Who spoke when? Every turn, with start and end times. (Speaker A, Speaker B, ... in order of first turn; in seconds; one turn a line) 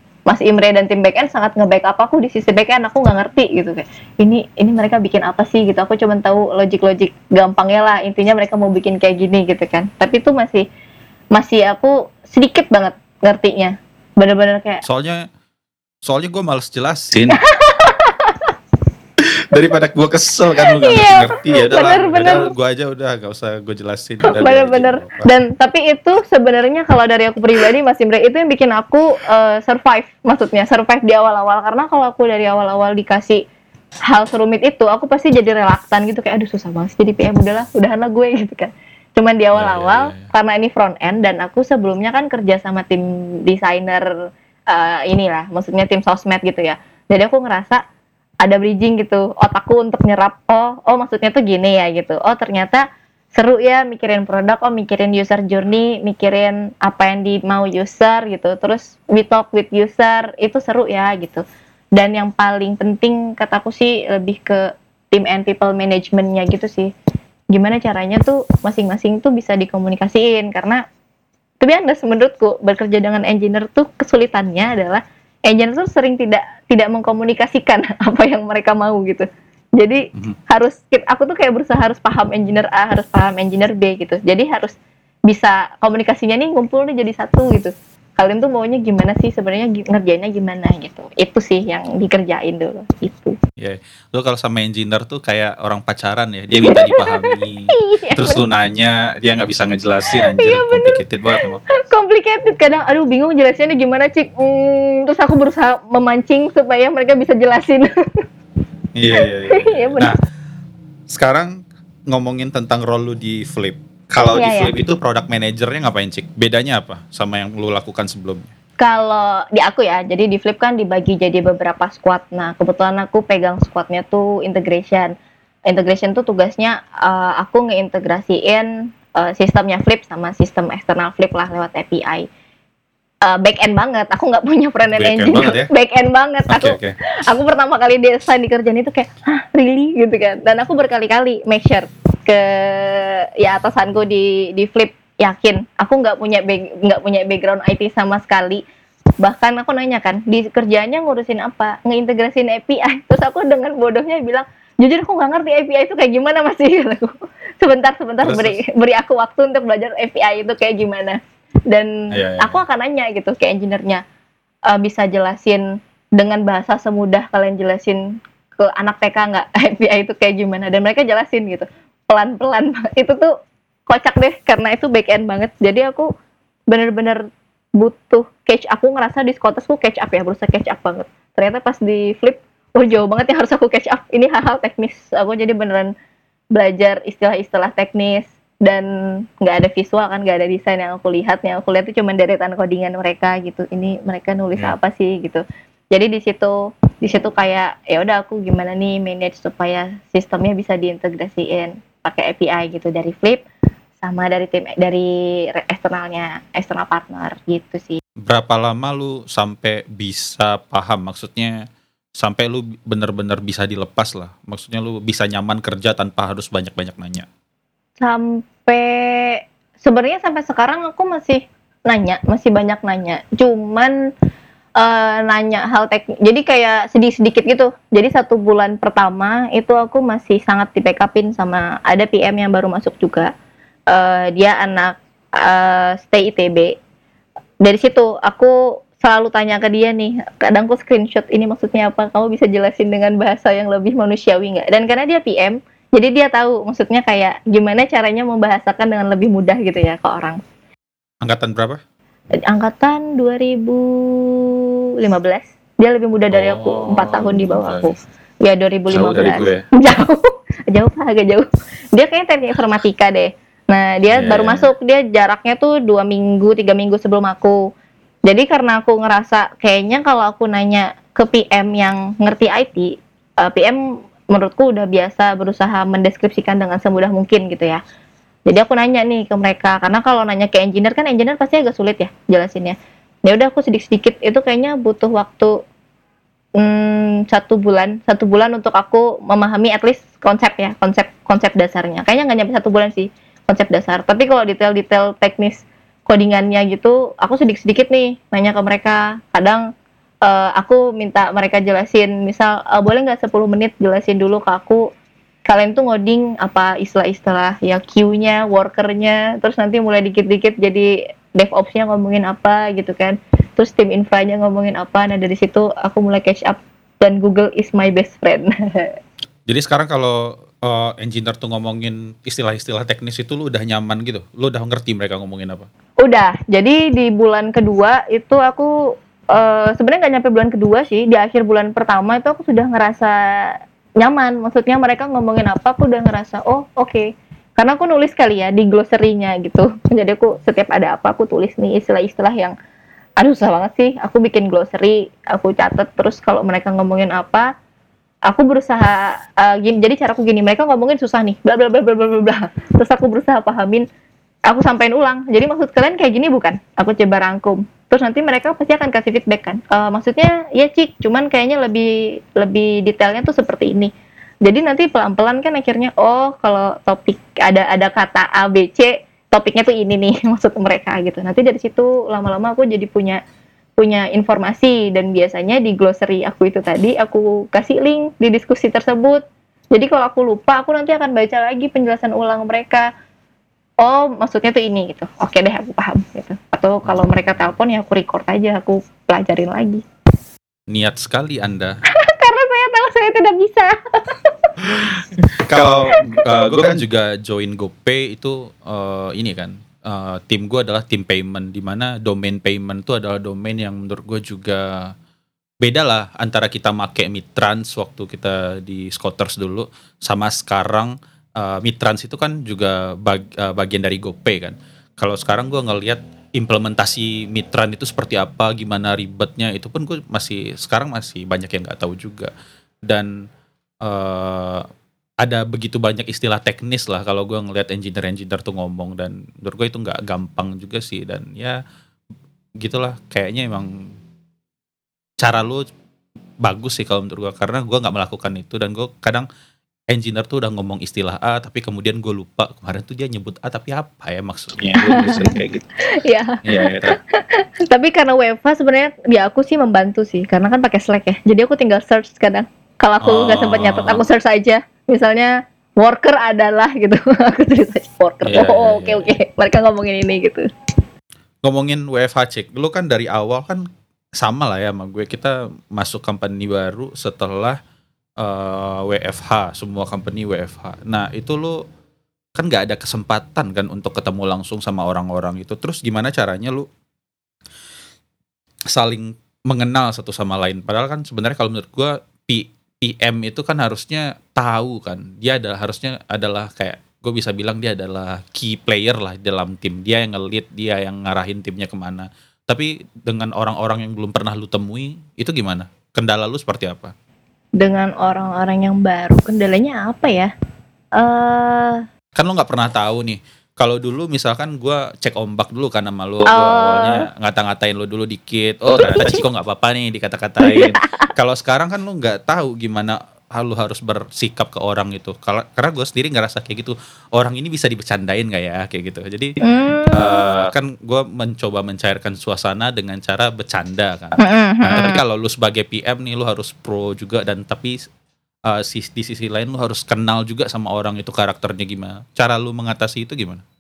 Speaker A: 0.3-10.7
Speaker A: 11.3-14.8
Speaker B: 14.8-15.3
Speaker B: 16.0-17.4
Speaker A: 17.3-18.5
Speaker B: 19.2-25.3
Speaker A: 20.6-22.5
Speaker A: 24.2-33.4
Speaker A: 34.1-44.1
Speaker B: 39.5-40.3
Speaker A: 44.7-47.8
Speaker A: 48.4-61.4
Speaker A: 62.0-66.9
Speaker A: 67.5-70.8
Speaker A: 71.6-79.3
Speaker A: 79.8-84.8
Speaker A: 85.3-93.4
Speaker B: 93.6-101.6
Speaker A: 96.7-98.4
Speaker A: 100.1-101.0
Speaker A: 101.7-108.2
Speaker B: 109.0-110.2
Speaker A: 109.1-110.1
Speaker B: 111.1-118.5
Speaker A: 114.3-114.7
Speaker A: 118.8-125.1
Speaker A: 125.7-132.3
Speaker A: 133.2-148.6
Speaker B: 134.9-135.7
Speaker B: 136.5-137.0
Speaker A: 149.2-164.0
Speaker B: 158.2-158.6
Speaker B: 162.1-162.6
Speaker A: 164.7-173.3
Speaker A: 173.9-176.1
Speaker A: 176.7-177.3
Speaker A: 177.8-185.9
Speaker A: 186.6-203.4
Speaker A: 204.0-208.0
Speaker B: 208.2-211.7
Speaker B: 212.2-217.3
Speaker A: 218.0-223.9
Speaker A: 224.8-233.3
Speaker A: 233.9-236.8
Speaker A: 237.6-250.4
Speaker B: 251.2-251.8
Speaker A: 252.3-267.7
Speaker B: 256.3-257.9
Speaker B: 258.9-259.7
Speaker B: 264.1-264.7
Speaker A: 268.3-277.8
Speaker A: 278.5-285.6
Speaker A: 286.6-299.6
Speaker A: 300.2-304.9
Speaker A: 305.5-318.9
Speaker B: 319.5-325.7
Speaker A: 326.0-342.6
Speaker A: 343.2-347.5
Speaker A: 348.3-353.9
Speaker A: 354.5-363.9
Speaker A: 364.4-373.2
Speaker A: 373.8-382.9
Speaker A: 383.8-389.8
Speaker B: 386.9-387.5
Speaker B: 390.7-391.8
Speaker A: 392.0-394.5
Speaker B: 394.6-404.9
Speaker A: 395.6-396.8
Speaker B: 405.6-422.3
Speaker B: 423.8-424.7
Speaker B: 425.2-431.6
Speaker B: 432.6-433.9
Speaker B: 435.2-435.6
Speaker B: 436.4-439.3
Speaker B: 439.9-445.8
Speaker A: 444.7-460.5
Speaker B: 446.4-447.0
Speaker B: 453.0-454.1
Speaker B: 458.3-459.1
Speaker B: 461.4-463.6
Speaker B: 464.2-467.6
Speaker B: 468.2-471.6
Speaker B: 472.4-476.7
Speaker B: 478.7-496.9
Speaker A: 497.6-500.3
Speaker A: 501.0-501.8
Speaker B: 502.1-519.4
Speaker A: 506.3-507.1
Speaker A: 508.7-509.2
Speaker A: 510.4-511.1
Speaker A: 519.4-520.2
Speaker B: 519.9-527.8
Speaker A: 524.2-525.0
Speaker B: 528.5-533.4